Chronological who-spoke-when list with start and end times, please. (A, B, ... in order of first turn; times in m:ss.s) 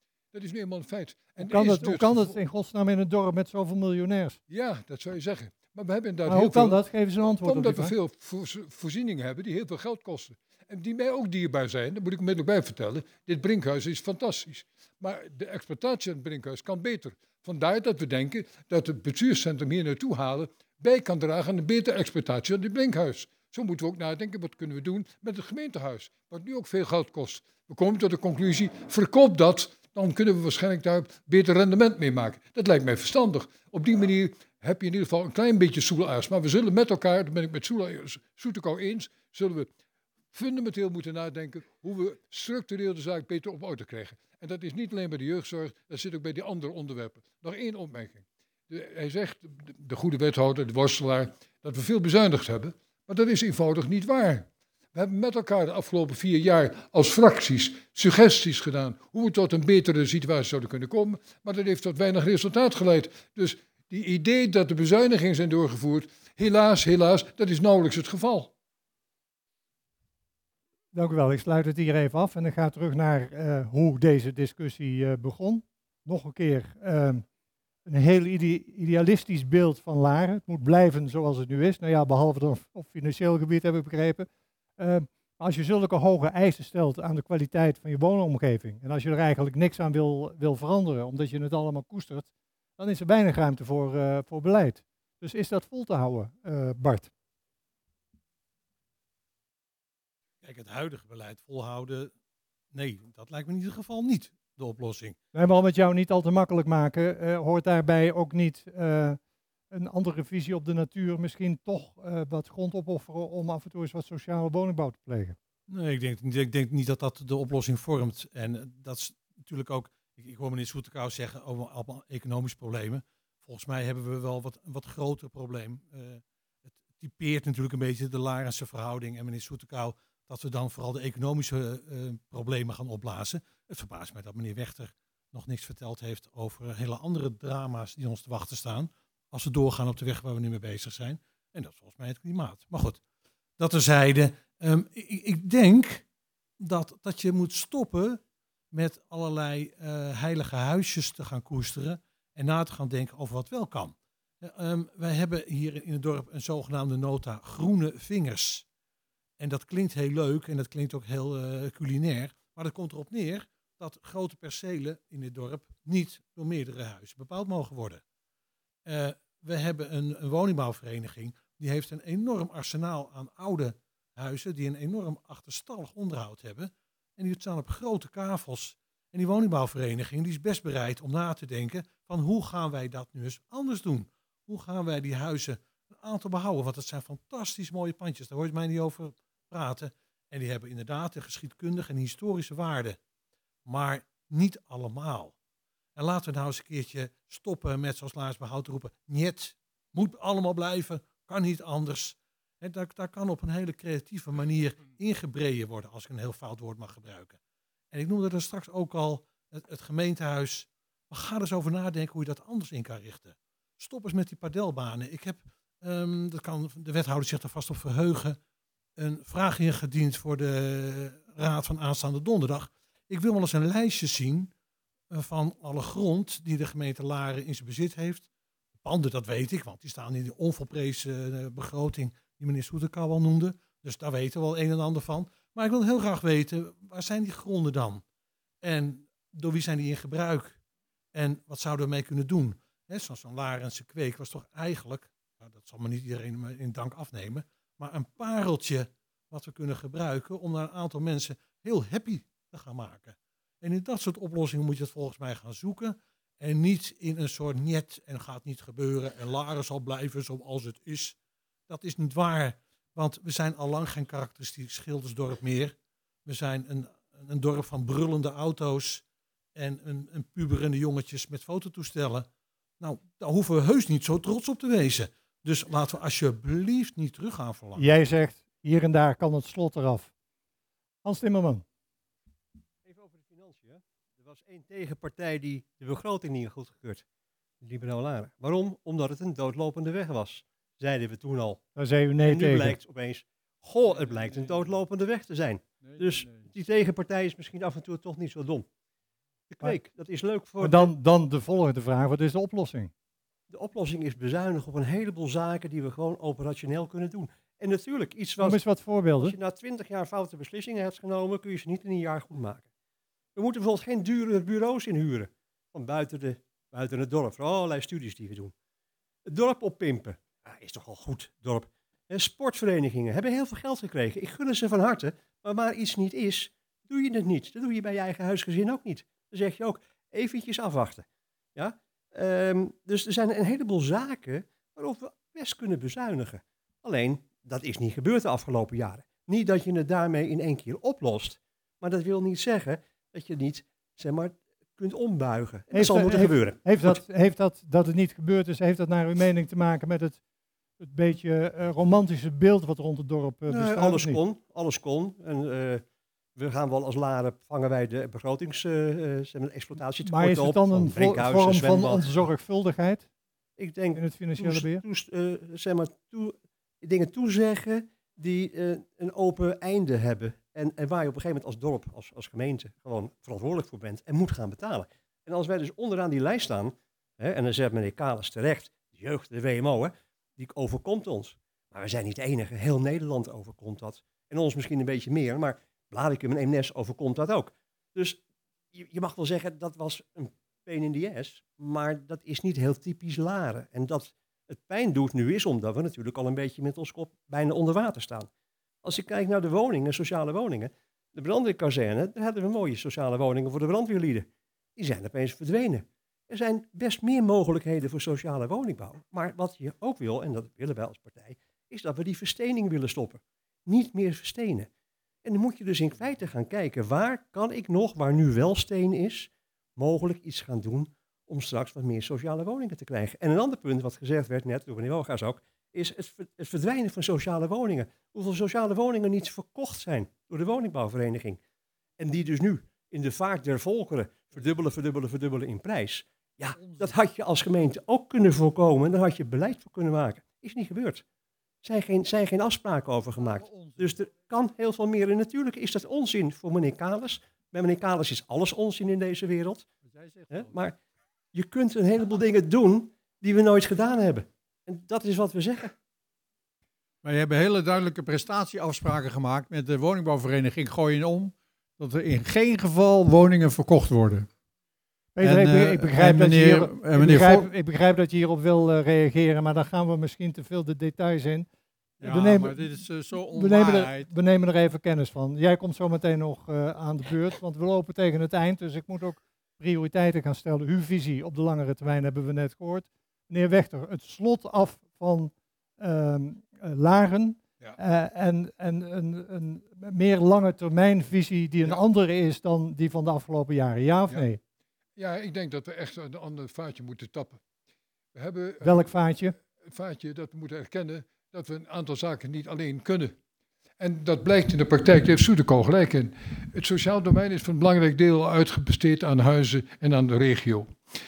0:00.3-0:02.4 A
0:01.4-0:04.4 B
0:04.5-0:06.8 A
0:06.2-0:07.9 B
0:07.4-0:39.7 A
0:40.3-1:08.5 A
1:10.9-1:17.2 B
1:17.8-1:37.1 B
1:40.4-1:42.1 C
1:42.7-1:45.2 C
1:45.3-1:49.2 B
1:49.7-1:55.4 B
1:55.7-2:06.2 C
2:06.9-2:23.0 C
2:23.6-2:26.0 C
2:26.6-2:28.2 C
2:28.7-2:38.6 C
2:39.4-2:48.0 C
2:48.8-3:13.0 C
3:13.6-3:15.3 C
3:16.0-3:27.4 C
3:27.9-3:38.4 C
3:39.0-3:44.5 C
3:45.1-3:48.3 C
3:48.8-3:58.0 C
3:58.6-4:00.6 C
4:01.1-4:21.2 C
4:21.7-4:25.7 C
4:26.2-4:29.0 C
4:29.6-4:32.3 C
4:32.8-4:37.8 C
4:37.8-4:40.1 B
4:41.0-4:41.6 B
4:42.8-4:47.0 D
4:47.6-4:51.6 D
4:51.8-4:52.8 B
4:52.2-4:58.6 D
4:53.9-4:54.7 E
4:55.8-4:56.5 E
4:59.5-5:00.9 D
5:00.6-5:02.9 B
5:03.5-5:08.6 D
5:08.4-5:09.4 B
5:09.2-5:12.7 D
5:13.3-5:18.5 D
5:19.2-5:47.0 D
5:45.7-5:50.2 B
5:50.8-5:54.2 B
5:53.5-5:55.8 D
5:56.4-6:02.1 D
6:00.0-6:03.1 B
6:03.6-6:28.2 D
6:03.9-6:04.8 B
6:28.7-6:38.3 D
6:38.8-6:54.7 D
6:55.2-7:11.4 D
7:12.0-7:21.0 D
7:16.5-7:16.9 E
7:21.6-7:29.7 D
7:23.2-7:23.9 E
7:29.8-7:30.6 E
7:30.3-7:30.8 D
7:31.3-7:35.7 D
7:37.0-7:44.3 E
7:45.1-7:51.5 B
7:45.2-7:47.4 E
7:52.0-7:54.1 E
7:52.0-8:14.4 B
8:15.0-8:17.4 A
8:18.1-8:18.9 A
8:18.6-8:19.3 B
8:19.6-8:23.1 A
8:23.8-8:30.8 A